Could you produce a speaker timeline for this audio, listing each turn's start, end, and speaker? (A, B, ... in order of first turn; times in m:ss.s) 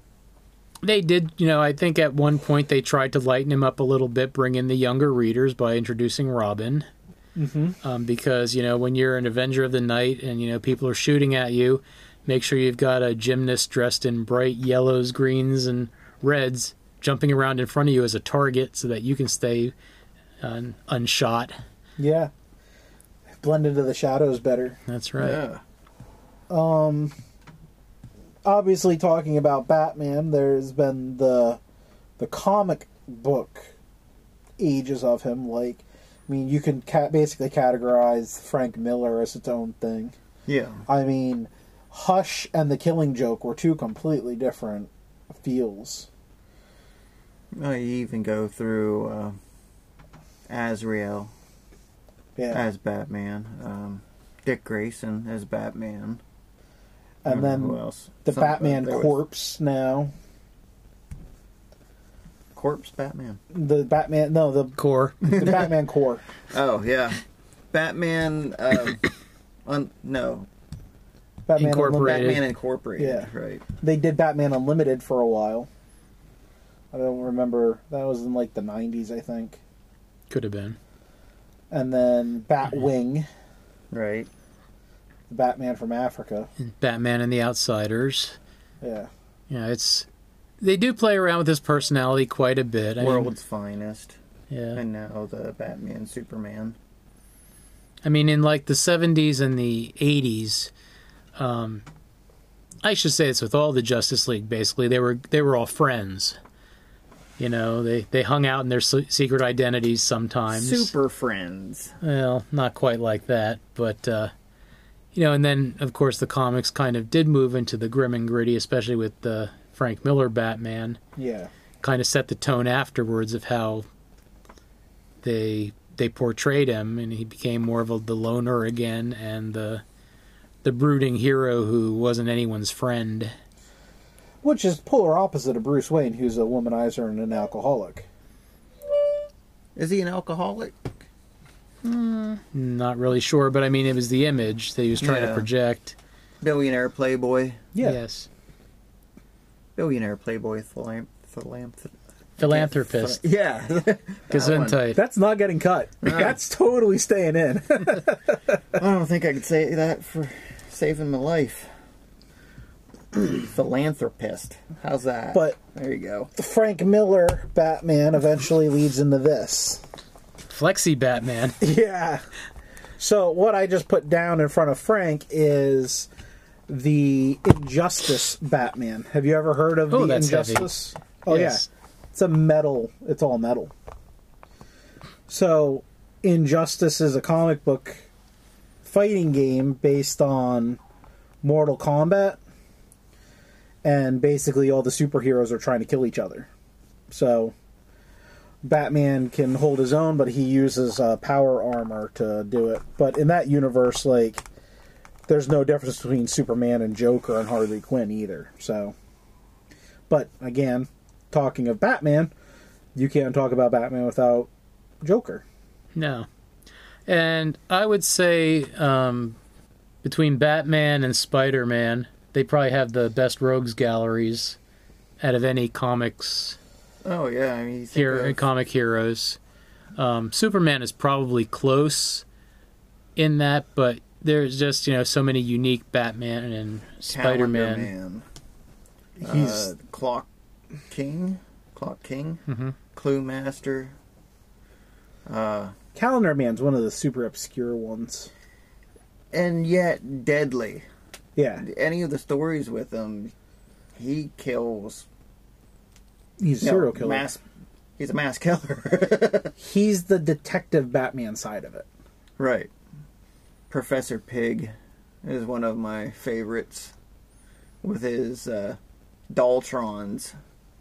0:00.8-0:06.9 A
0:07.4-0:07.8 B
0:07.8-0:19.7 A
0:20.4-0:21.6 A
0:22.0-0:22.3 B
0:23.4-0:24.8 B
0:24.9-0:25.4 A
0:25.2-0:25.6 C
0:26.5-0:27.1 B
0:28.4-0:31.6 B
0:32.2-0:33.7 B
0:34.6-0:40.2 B
0:40.5-0:40.8 C
0:40.8-0:46.1 B
0:47.5-0:49.4 C
0:50.5-0:51.3 C
0:52.4-0:52.6 B
0:52.5-0:56.2 C
0:57.2-1:00.1 B
0:57.2-0:59.1 C
1:02.5-1:03.4 C
1:03.5-1:06.2 B
1:04.8-1:05.4 A
1:05.2-1:05.7 C
1:06.4-1:07.2 C
1:07.7-1:09.1 C
1:09.6-1:10.5 C
1:11.5-1:12.4 B
1:11.6-1:12.4 A
1:12.0-1:13.6 C
1:13.0-1:15.7 B
1:16.9-1:19.6 B
1:20.3-1:20.8 A
1:21.7-1:23.3 B
1:23.9-1:24.3 C
1:25.3-1:26.5 B
1:26.6-1:28.4 A
1:28.8-1:29.1 B
1:29.5-1:30.1 A
1:30.6-1:33.3 A
1:33.0-1:34.2 C
1:34.5-1:34.8 A
1:34.7-1:36.8 C
1:38.0-1:40.7 A
1:41.4-1:41.8 A
1:42.8-1:46.4 A
1:47.4-1:50.9 A
1:50.5-1:51.9 C
1:52.0-1:54.3 A
1:55.1-2:01.0 A
2:01.2-2:01.5 B
2:01.8-2:03.9 A
2:05.2-2:09.8 A
2:10.6-2:13.3 A
2:14.4-2:18.1 B
2:19.8-2:21.0 C
2:21.8-2:26.0 A
2:25.0-2:25.5 C
2:26.4-2:27.6 C
2:27.7-2:28.0 B
2:27.8-2:28.3 A
2:29.8-2:34.8 C
2:32.4-2:33.2 A
2:34.3-2:35.0 A
2:34.9-2:38.6 B
2:36.0-2:36.3 C
2:38.8-2:41.7 C
2:43.1-2:46.3 C
2:46.4-2:49.8 B
2:50.5-2:51.6 A
2:51.6-2:52.2 B
2:53.0-2:56.1 B
2:56.7-3:03.7 B
2:59.9-3:00.7 A
3:01.3-3:01.6 A
3:05.3-3:08.1 B
3:08.8-3:10.8 B
3:11.4-3:12.4 B
3:13.8-3:16.5 B
3:17.1-3:17.5 B
3:18.6-3:24.4 B
3:25.3-3:28.9 B
3:30.1-3:32.3 B
3:32.9-3:34.5 B
3:35.0-3:35.4 B
3:35.9-3:36.2 A
3:37.1-3:39.4 A
3:40.0-3:44.6 A
3:45.2-3:46.6 A
3:47.0-3:48.4 C
3:47.9-3:49.4 A
3:50.0-3:52.2 A
3:53.2-3:57.9 A
3:57.1-3:58.2 C
3:59.2-3:59.7 B
3:59.2-4:00.3 C
4:00.9-4:03.9 C
4:02.5-4:02.7 A
4:05.2-4:05.7 C
4:05.9-4:08.3 B
4:09.3-4:10.8 C
4:11.4-4:11.6 B
4:11.6-4:13.3 C
4:14.0-4:15.0 C
4:16.4-4:17.3 B
4:16.6-4:17.4 C
4:18.0-4:19.5 C
4:19.6-4:21.9 B
4:22.4-4:22.7 C
4:23.7-4:24.7 C
4:25.2-4:26.9 C
4:27.8-4:28.8 C
4:29.3-4:30.3 C